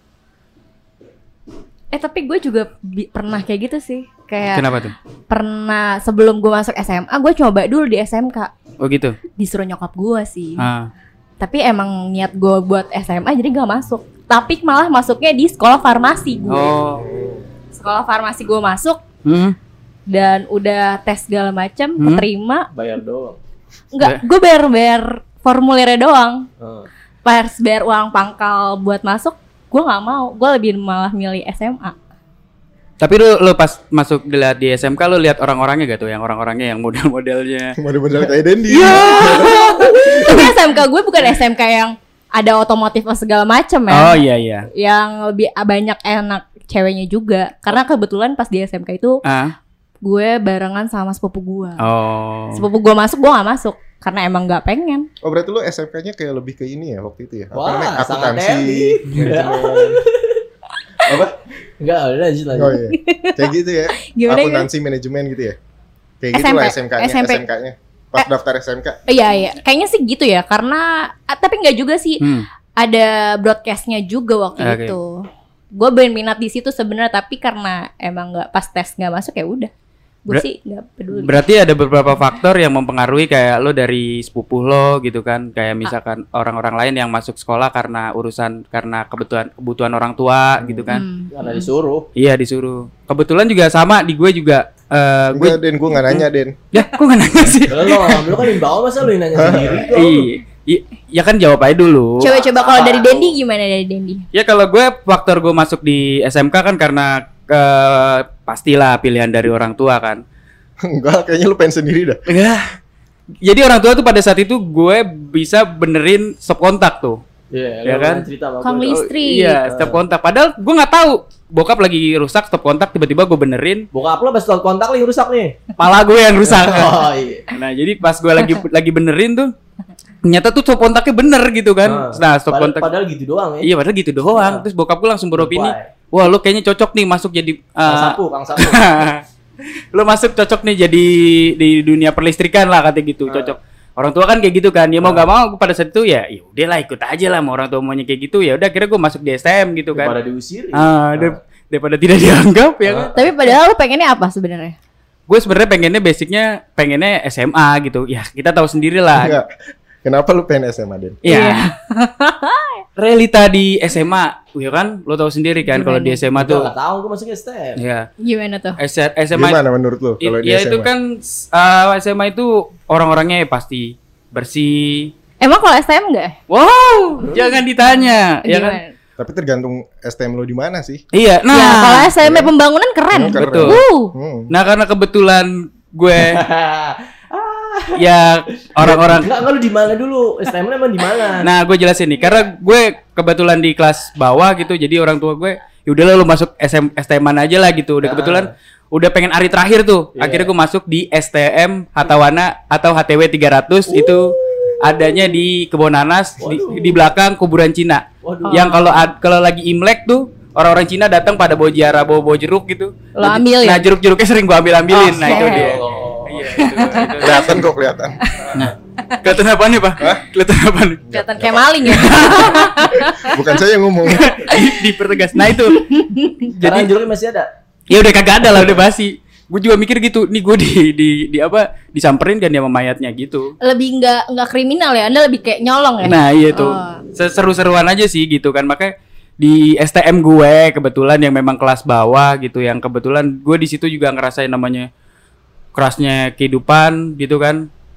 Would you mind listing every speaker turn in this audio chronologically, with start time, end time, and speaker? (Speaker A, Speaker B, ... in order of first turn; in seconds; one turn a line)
Speaker A: 1.9-8.5
Speaker B: 4.5-4.9
Speaker B: 8.8-9.2
Speaker A: 9.3-10.7
Speaker B: 10.6-10.9
Speaker A: 11.4-16.7
Speaker B: 16.5-17.1
Speaker C: 16.9-17.5
Speaker A: 17.7-19.0
Speaker B: 19.2-19.5
Speaker A: 20.1-22.7
Speaker B: 22.0-22.2
Speaker D: 22.7-23.4
Speaker A: 23.9-26.4
Speaker D: 26.6-26.9
Speaker A: 27.2-31.9
Speaker B: 33.0-37.8
Speaker C: 37.8-40.4
Speaker B: 38.7-40.5
Speaker A: 38.8-49.2
Speaker B: 43.9-44.7
Speaker B: 49.2-49.5
Speaker A: 50.0-51.8
Speaker B: 51.8-52.6
Speaker A: 52.5-55.0
Speaker C: 55.2-60.0
Speaker D: 57.5-60.4
Speaker B: 59.1-59.5
Speaker C: 61.1-61.3
Speaker D: 61.1-62.8
Speaker C: 62.5-65.6
Speaker A: 62.9-63.4
Speaker A: 64.1-64.7
Speaker C: 66.2-69.0
Speaker A: 66.3-67.4
Speaker A: 69.1-72.2
Speaker B: 72.2-72.5
Speaker A: 72.8-79.7
Speaker B: 74.6-74.9
Speaker A: 80.2-81.3
Speaker B: 81.1-91.0
Speaker C: 90.6-90.8
Speaker A: 90.9-91.7
Speaker D: 91.3-92.0
Speaker B: 92.1-98.5
Speaker C: 95.3-96.6
Speaker D: 97.7-100.3
Speaker C: 99.3-99.8
Speaker B: 99.9-102.3
Speaker D: 102.2-103.3
Speaker A: 102.2-104.2
Speaker B: 104.3-110.2
Speaker C: 110.8-112.2
Speaker B: 112.3-112.7
Speaker B: 113.4-117.2
Speaker D: 117.5-120.0
Speaker B: 117.8-118.3
Speaker A: 118.6-119.6
Speaker B: 118.9-123.8
Speaker D: 123.9-125.5
Speaker B: 125.8-129.5
Speaker D: 126.4-127.4
Speaker B: 130.2-132.9
Speaker D: 131.8-133.7
Speaker B: 133.6-139.2
Speaker D: 134.3-134.6
Speaker D: 135.3-135.9
Speaker D: 137.8-138.9
Speaker B: 139.9-150.2
Speaker D: 143.2-143.6
Speaker D: 145.0-145.2
Speaker D: 149.9-151.4
Speaker B: 150.7-153.2
Speaker D: 152.8-153.1
Speaker A: 153.1-154.7
Speaker B: 155.3-159.3
Speaker C: 159.1-159.5
Speaker C: 160.0-161.2
Speaker B: 161.2-161.7
Speaker A: 161.2-162.8
Speaker B: 163.0-166.7
Speaker A: 165.7-166.2
Speaker D: 166.3-167.8
Speaker B: 167.8-168.1
Speaker A: 168.2-168.8
Speaker B: 168.8-169.6
Speaker C: 169.3-170.9
Speaker B: 170.2-175.1
Speaker A: 175.4-176.3
Speaker B: 176.5-178.8
Speaker A: 178.4-178.9
Speaker C: 179.2-181.0
Speaker B: 181.1-182.1
Speaker A: 181.5-184.1
Speaker C: 182.2-182.5
Speaker C: 183.1-184.5
Speaker B: 183.3-183.8
Speaker B: 184.5-186.4
Speaker D: 186.1-188.0
Speaker B: 187.9-189.3
Speaker D: 188.8-191.5
Speaker B: 191.4-217.7
Speaker D: 198.0-198.5
Speaker D: 200.2-200.5
Speaker D: 203.9-205.1
Speaker D: 206.4-207.0
Speaker D: 208.2-208.7
Speaker A: 208.4-209.0
Speaker A: 213.1-213.9
Speaker D: 214.9-217.2
Speaker A: 215.2-215.8
Speaker A: 216.7-217.1
Speaker C: 217.2-218.2
Speaker D: 218.4-218.7
Speaker B: 218.5-221.0
Speaker C: 221.1-224.4
Speaker A: 221.1-223.5
Speaker B: 221.8-222.8
Speaker B: 224.1-225.8
Speaker A: 224.4-224.8
Speaker A: 225.4-226.5
Speaker D: 226.6-227.5
Speaker B: 226.6-226.9
Speaker B: 227.9-233.5
Speaker A: 233.6-237.0
Speaker B: 236.0-244.9
Speaker B: 245.7-247.7